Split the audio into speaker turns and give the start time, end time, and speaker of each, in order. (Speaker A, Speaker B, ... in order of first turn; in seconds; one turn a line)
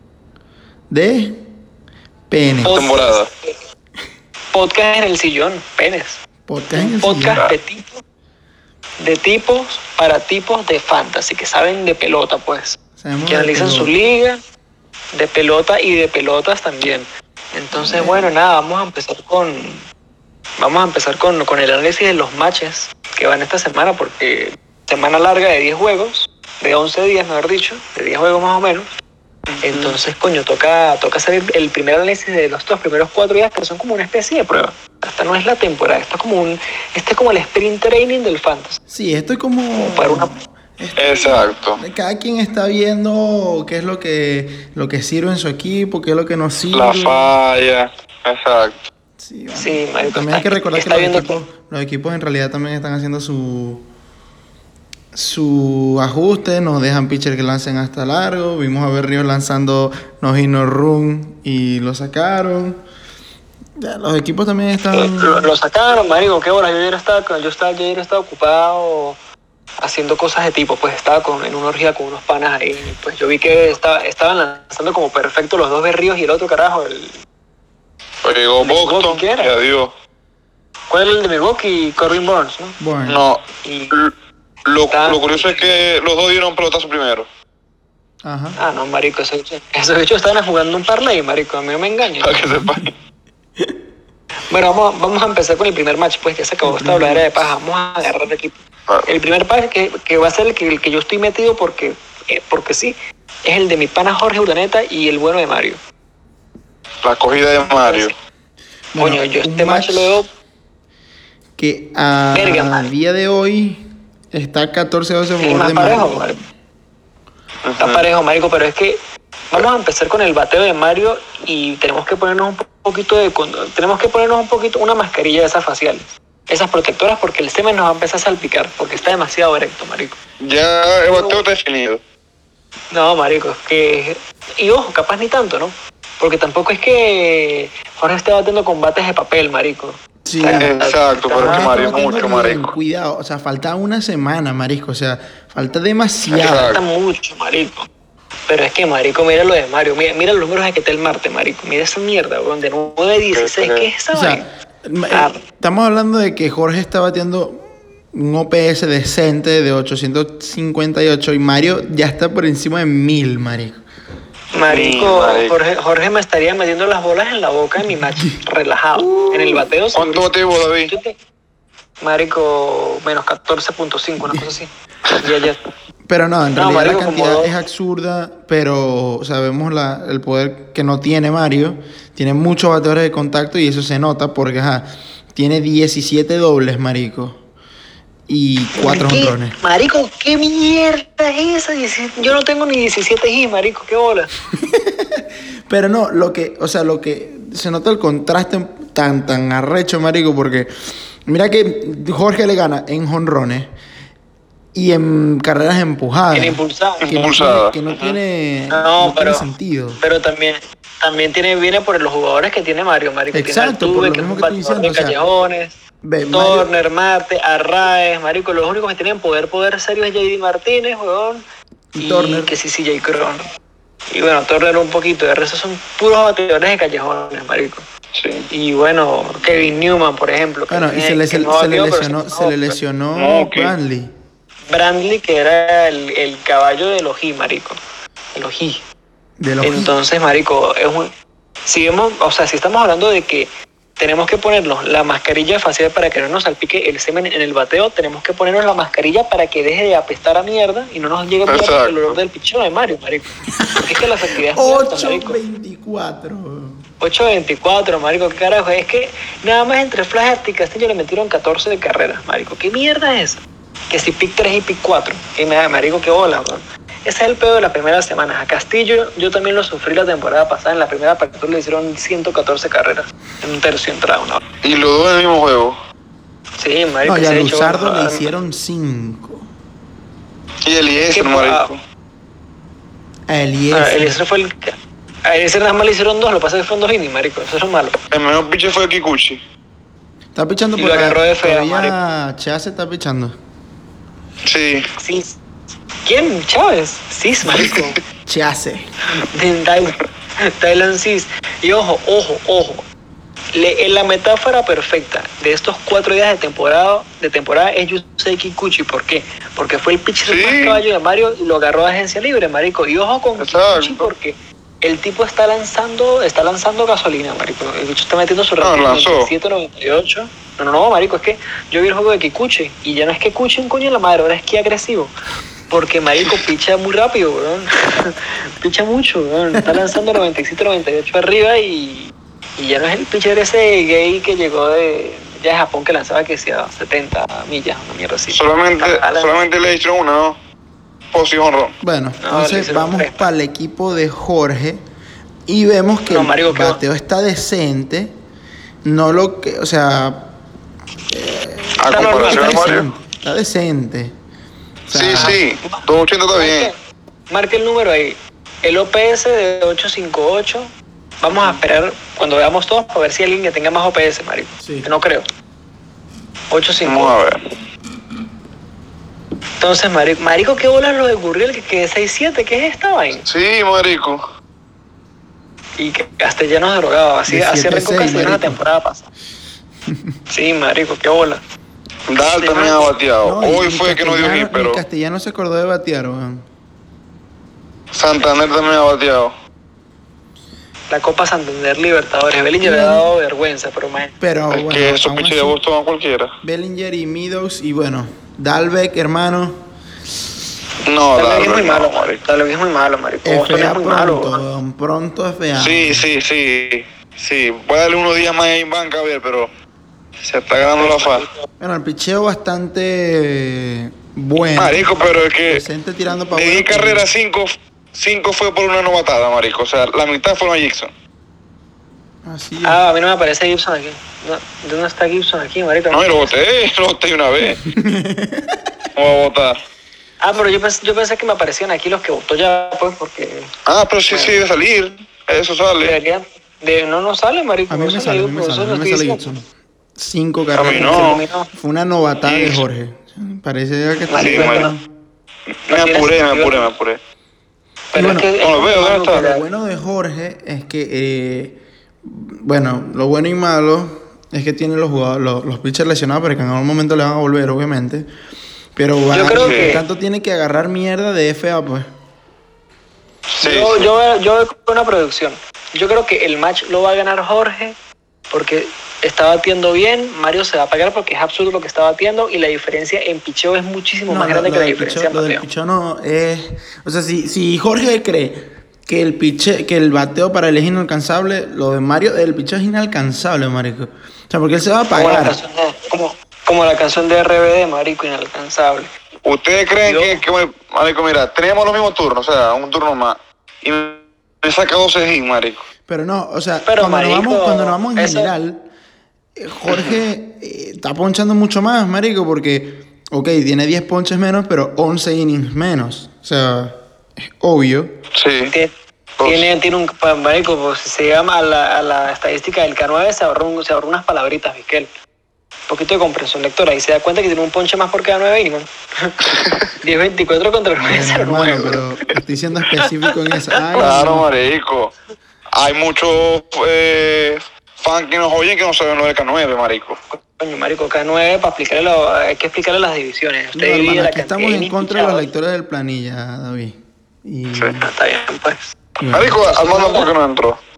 Speaker A: 0.9-1.5
Speaker A: 2.3-2.8
Speaker B: 2.6-3.5
Speaker C: 2.7-3.3
Speaker B: 4.5-6.2
Speaker A: 6.5-7.5
Speaker B: 6.7-8.0
Speaker B: 9.0-14.4
Speaker A: 13.0-13.9
Speaker B: 15.1-19.8
Speaker A: 17.7-18.3
Speaker B: 20.6-28.9
Speaker C: 29.6-30.0
Speaker B: 29.6-38.8
Speaker A: 38.9-47.3
Speaker B: 39.8-40.3
Speaker C: 41.0-41.8
Speaker C: 46.7-48.8
Speaker A: 49.2-53.9
Speaker B: 49.6-51.4
Speaker A: 55.1-62.8
Speaker A: 63.8-65.5
Speaker B: 64.9-69.2
Speaker B: 69.8-77.2
Speaker C: 78.2-79.9
Speaker B: 78.6-79.5
Speaker B: 80.9-82.8
Speaker A: 82.8-83.2
Speaker C: 83.1-84.1
Speaker B: 83.6-84.0
Speaker C: 84.7-87.3
Speaker B: 84.9-85.7
Speaker A: 88.2-88.6
Speaker B: 88.6-92.4
Speaker C: 92.2-92.9
Speaker A: 92.5-92.8
Speaker B: 94.5-103.0
Speaker A: 96.6-97.5
Speaker B: 103.5-105.8
Speaker C: 107.0-108.1
Speaker B: 107.6-108.1
Speaker A: 108.9-110.2
Speaker B: 109.0-110.3
Speaker A: 111.6-116.4
Speaker B: 112.3-112.9
Speaker B: 115.4-116.4
Speaker C: 117.7-118.0
Speaker B: 117.8-119.0
Speaker B: 119.5-130.2
Speaker C: 130.4-132.0
Speaker B: 131.1-131.4
Speaker B: 132.9-142.3
Speaker A: 140.3-140.7
Speaker C: 140.5-142.8
Speaker A: 141.4-146.8
Speaker C: 146.3-146.8
Speaker B: 146.5-147.9
Speaker B: 148.5-154.5
Speaker C: 153.3-153.9
Speaker A: 154.1-163.8
Speaker B: 155.1-155.4
Speaker B: 164.5-170.3
Speaker C: 164.7-165.6
Speaker A: 169.0-169.6
Speaker C: 169.9-170.9
Speaker B: 170.9-171.2
Speaker B: 172.0-174.7
Speaker C: 175.1-175.5
Speaker B: 175.2-175.6
Speaker A: 176.1-187.4
Speaker B: 176.6-177.6
Speaker A: 188.3-189.6
Speaker B: 188.8-194.3
Speaker A: 194.6-200.7
Speaker A: 201.3-203.7
Speaker A: 204.8-210.0
Speaker B: 206.3-207.1
Speaker C: 207.0-208.2
Speaker B: 208.7-209.5
Speaker B: 210.0-215.8
Speaker A: 213.3-215.2
Speaker A: 216.0-216.7
Speaker B: 216.3-221.4
Speaker A: 221.9-222.5
Speaker B: 222.0-223.4
Speaker B: 224.1-227.8
Speaker C: 228.1-228.5
Speaker B: 228.5-232.7
Speaker A: 230.7-234.1
Speaker C: 233.2-233.7
Speaker B: 234.7-237.8
Speaker B: 238.3-238.8
Speaker A: 239.4-239.9
Speaker B: 239.6-241.1
Speaker B: 241.7-255.4
Speaker C: 251.5-252.2
Speaker A: 254.5-256.8
Speaker B: 257.0-274.4
Speaker C: 274.6-275.8
Speaker B: 276.6-278.3
Speaker A: 277.1-279.5
Speaker C: 280.6-281.8
Speaker B: 281.0-281.7
Speaker A: 283.3-284.2
Speaker B: 283.7-288.0
Speaker C: 288.1-289.4
Speaker A: 290.4-293.3
Speaker B: 290.8-292.0
Speaker C: 294.4-294.9
Speaker B: 295.0-295.4
Speaker B: 296.1-298.0
Speaker C: 297.5-297.9
Speaker A: 298.3-298.9
Speaker B: 299.3-302.9
Speaker B: 303.5-325.1
Speaker C: 310.2-310.8
Speaker C: 313.4-314.1
Speaker C: 318.6-319.3
Speaker B: 325.7-339.4
Speaker A: 329.6-330.0
Speaker C: 338.3-340.4
Speaker C: 341.1-341.8
Speaker A: 341.8-344.8
Speaker B: 342.2-343.1
Speaker A: 345.5-348.1
Speaker B: 346.1-346.8
Speaker A: 348.8-350.3
Speaker A: 351.1-354.1
Speaker C: 351.8-352.9
Speaker B: 351.9-352.7
Speaker A: 354.9-355.4
Speaker C: 354.9-356.7
Speaker B: 355.1-355.9
Speaker B: 356.4-356.8
Speaker B: 357.3-365.3
Speaker A: 364.6-364.9
Speaker B: 366.5-367.2
Speaker C: 366.9-367.4
Speaker B: 369.6-373.2
Speaker C: 373.2-374.2
Speaker B: 375.8-379.1
Speaker A: 377.3-378.6
Speaker A: 379.9-380.2
Speaker B: 380.3-381.4
Speaker C: 382.1-384.8
Speaker B: 382.3-383.0
Speaker A: 383.2-386.4
Speaker C: 387.9-389.3
Speaker B: 390.9-394.1
Speaker A: 392.6-393.1
Speaker A: 394.2-395.6
Speaker C: 394.5-396.3
Speaker A: 396.4-399.6
Speaker C: 400.9-402.2
Speaker B: 401.2-404.4
Speaker A: 403.2-406.1
Speaker C: 405.6-409.5
Speaker C: 410.2-411.3
Speaker B: 410.8-411.5
Speaker A: 411.6-414.9
Speaker C: 414.6-415.6
Speaker A: 415.5-417.1
Speaker C: 416.3-420.9
Speaker A: 422.2-422.8
Speaker B: 422.6-426.4
Speaker C: 425.9-427.6
Speaker A: 427.6-428.6
Speaker C: 429.0-429.6
Speaker B: 430.2-433.5
Speaker C: 433.7-436.0
Speaker B: 434.1-434.4
Speaker B: 435.8-439.2
Speaker A: 437.7-444.9
Speaker C: 440.6-441.2
Speaker B: 440.6-441.5
Speaker C: 442.2-442.6
Speaker B: 444.1-444.7
Speaker C: 444.2-444.7
Speaker C: 445.7-447.0
Speaker B: 445.7-446.7
Speaker B: 447.9-449.4
Speaker A: 447.9-448.3
Speaker C: 448.4-449.3
Speaker A: 449.2-458.1
Speaker A: 458.8-461.9
Speaker B: 459.1-459.8
Speaker C: 459.4-459.8
Speaker C: 463.3-463.9
Speaker B: 463.4-467.8
Speaker B: 468.3-475.4
Speaker A: 474.1-485.4
Speaker B: 484.9-488.9
Speaker C: 489.2-495.6
Speaker B: 489.9-490.2
Speaker A: 495.9-498.7
Speaker B: 496.7-498.3
Speaker A: 499.4-507.9
Speaker C: 499.7-500.0
Speaker C: 508.1-508.5
Speaker B: 508.5-514.9
Speaker C: 509.2-509.5
Speaker B: 515.7-519.2
Speaker C: 519.3-519.7
Speaker B: 519.8-521.8
Speaker A: 520.8-524.3
Speaker C: 523.8-524.9
Speaker C: 525.5-530.0
Speaker B: 530.1-535.3
Speaker A: 533.5-537.9
Speaker B: 537.8-538.8
Speaker A: 539.0-539.4
Speaker C: 539.1-540.6
Speaker B: 539.4-540.1